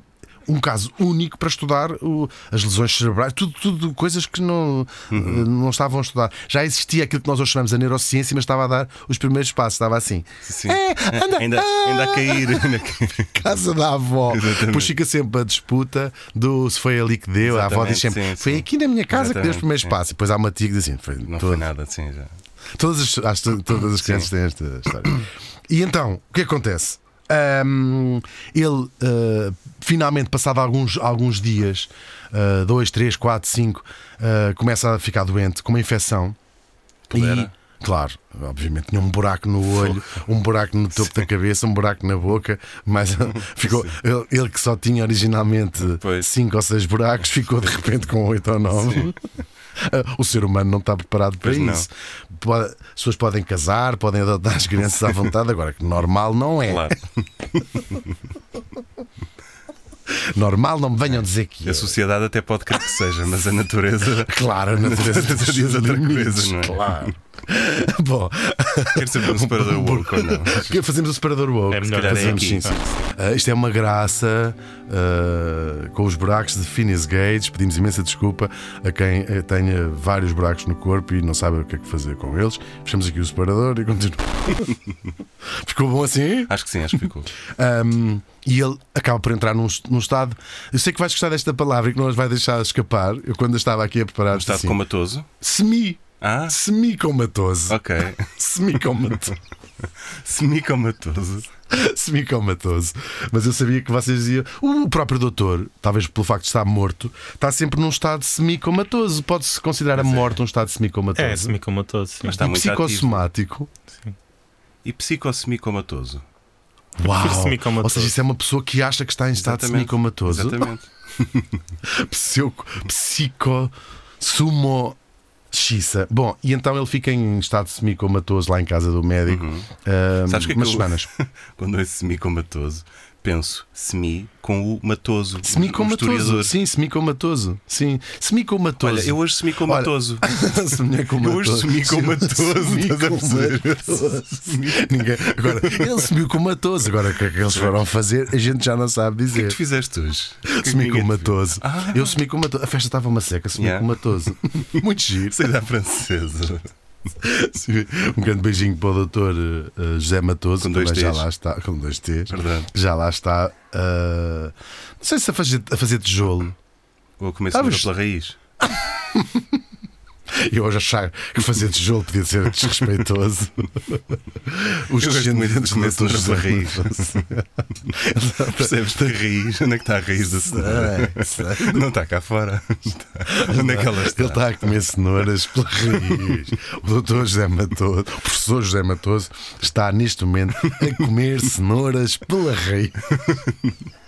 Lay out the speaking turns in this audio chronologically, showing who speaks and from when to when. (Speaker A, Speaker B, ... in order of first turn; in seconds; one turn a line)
Speaker A: 0.5-12.7
Speaker B: 5.1-5.5
Speaker B: 10.4-13.6
Speaker A: 13.3-21.7
Speaker B: 14.3-14.9
Speaker B: 17.4-20.0
Speaker B: 21.3-22.3
Speaker A: 22.8-36.4
Speaker B: 24.0-24.3
Speaker B: 37.1-37.5
Speaker A: 37.1-49.2
Speaker B: 39.7-40.0
Speaker B: 43.5-43.9
Speaker B: 45.8-46.3
Speaker B: 48.7-49.1
Speaker A: 49.8-56.9
Speaker B: 51.4-51.9
Speaker B: 56.6-58.1
Speaker A: 60.2-62.0
Speaker B: 61.6-67.1
Speaker A: 64.3-84.7
Speaker B: 68.9-70.8
Speaker C: 71.7-72.8
Speaker B: 71.9-72.8
Speaker A: 85.5-86.5
Speaker B: 86.5-87.3
Speaker A: 87.5-94.8
Speaker B: 94.3-95.3
Speaker A: 95.4-99.4
Speaker B: 96.2-96.6
Speaker B: 97.7-98.3
Speaker B: 100.1-101.5
Speaker A: 101.7-111.6
Speaker B: 110.0-110.4
Speaker C: 111.2-112.4
Speaker B: 112.2-113.3
Speaker A: 112.3-113.7
Speaker B: 114.8-116.2
Speaker A: 117.0-120.7
Speaker C: 117.1-118.1
Speaker B: 119.4-121.6
Speaker A: 121.9-125.0
Speaker A: 125.5-131.1
Speaker B: 129.3-129.7
Speaker B: 130.3-136.5
Speaker A: 135.4-149.6
Speaker B: 138.8-140.4
Speaker B: 141.0-146.1
Speaker B: 149.3-152.2
Speaker A: 150.4-155.4
Speaker B: 153.6-154.0
Speaker B: 155.3-156.7
Speaker A: 157.2-166.5
Speaker B: 160.6-161.3
Speaker B: 162.3-162.7
Speaker B: 167.2-168.4
Speaker A: 167.5-167.9
Speaker A: 168.6-169.6
Speaker A: 170.3-179.2
Speaker B: 174.9-177.2
Speaker B: 178.5-184.7
Speaker A: 180.4-181.8
Speaker A: 183.3-193.1
Speaker B: 185.9-186.4
Speaker B: 193.1-193.8